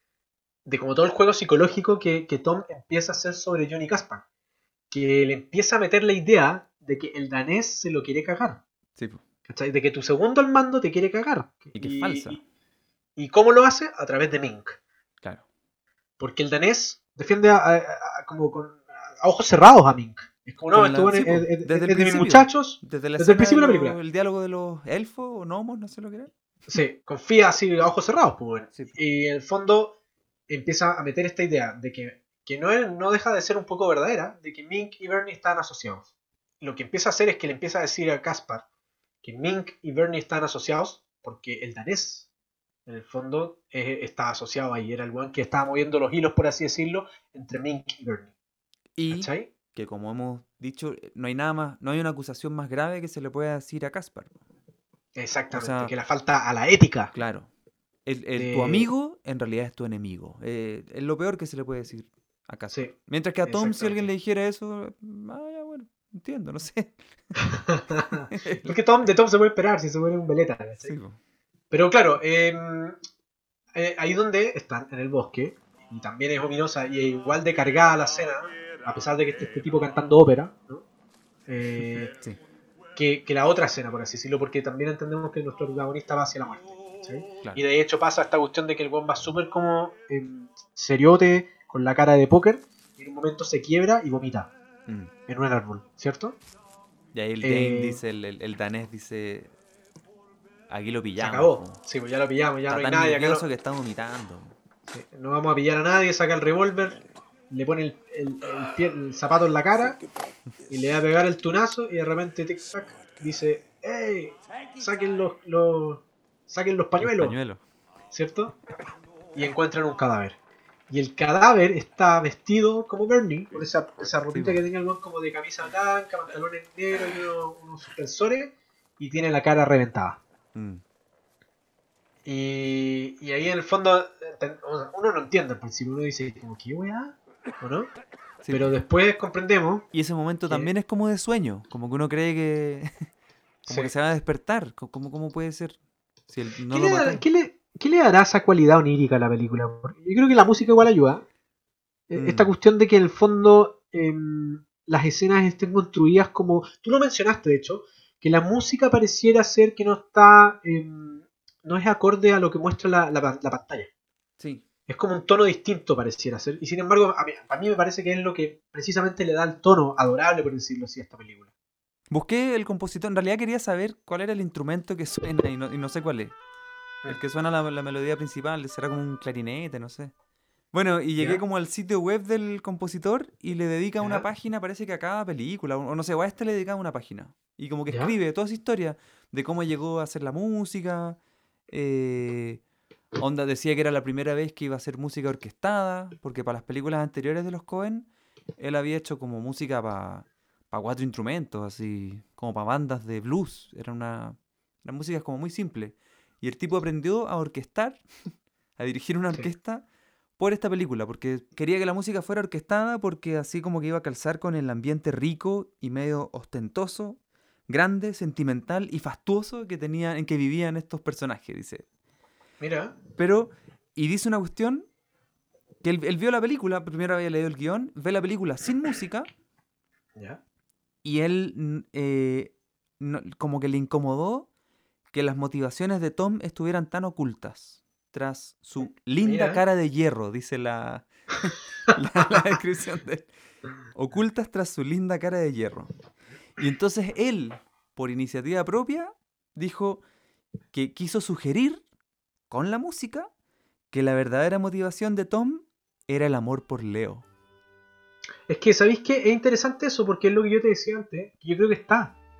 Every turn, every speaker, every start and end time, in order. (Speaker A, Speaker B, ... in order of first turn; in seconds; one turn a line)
Speaker A: 0.7-4.2
Speaker A: 4.9-8.6
Speaker B: 9.0-9.2
Speaker A: 9.5-12.4
Speaker B: 11.7-12.4
Speaker A: 13.2-14.8
Speaker A: 16.2-24.0
Speaker B: 20.7-26.3
Speaker A: 26.7-29.9
Speaker A: 30.5-36.1
Speaker A: 36.6-38.6
Speaker A: 39.2-42.2
Speaker A: 42.9-48.3
Speaker B: 49.0-54.4
Speaker A: 49.1-49.5
Speaker A: 55.1-57.1
Speaker B: 55.5-55.9
Speaker B: 57.1-57.5
Speaker B: 58.0-67.0
Speaker A: 58.3-58.9
Speaker A: 63.4-64.1
Speaker A: 67.5-70.9
Speaker B: 68.3-68.8
Speaker B: 70.8-71.2
Speaker A: 71.7-73.0
Speaker A: 73.7-80.8
Speaker A: 81.5-82.1
Speaker B: 82.1-82.4
Speaker A: 82.9-94.5
Speaker B: 94.9-95.1
Speaker A: 95.3-96.4
Speaker B: 97.1-99.5
Speaker A: 97.4-98.0
Speaker B: 100.7-101.8
Speaker A: 101.2-103.5
Speaker B: 102.7-104.5
Speaker A: 104.9-110.0
Speaker A: 110.7-117.3
Speaker B: 117.0-117.6
Speaker A: 118.1-118.6
Speaker A: 119.3-120.4
Speaker A: 120.9-130.2
Speaker B: 124.3-124.6
Speaker B: 130.5-130.8
Speaker A: 132.2-137.9
Speaker B: 138.4-138.8
Speaker A: 138.5-139.8
Speaker B: 139.9-142.9
Speaker A: 143.7-143.9
Speaker B: 143.7-145.8
Speaker B: 146.3-147.2
Speaker A: 146.7-151.2
Speaker A: 152.1-163.9
Speaker B: 152.1-152.5
Speaker B: 164.4-164.6
Speaker A: 164.9-171.5
Speaker B: 172.1-176.3
Speaker B: 177.1-180.1
Speaker B: 180.7-191.2
Speaker A: 181.2-181.4
Speaker A: 187.9-188.1
Speaker B: 191.7-192.6
Speaker B: 193.2-208.0
Speaker B: 208.8-209.8
Speaker B: 210.4-221.8
Speaker A: 222.6-222.9
Speaker B: 223.2-224.8
Speaker B: 225.8-229.3
Speaker B: 231.0-234.5
Speaker B: 235.1-243.3
Speaker A: 239.2-239.6
Speaker B: 243.9-245.9
Speaker B: 246.6-250.0
Speaker B: 250.7-251.8
Speaker B: 252.5-253.3
Speaker B: 253.9-257.2
Speaker A: 258.5-262.1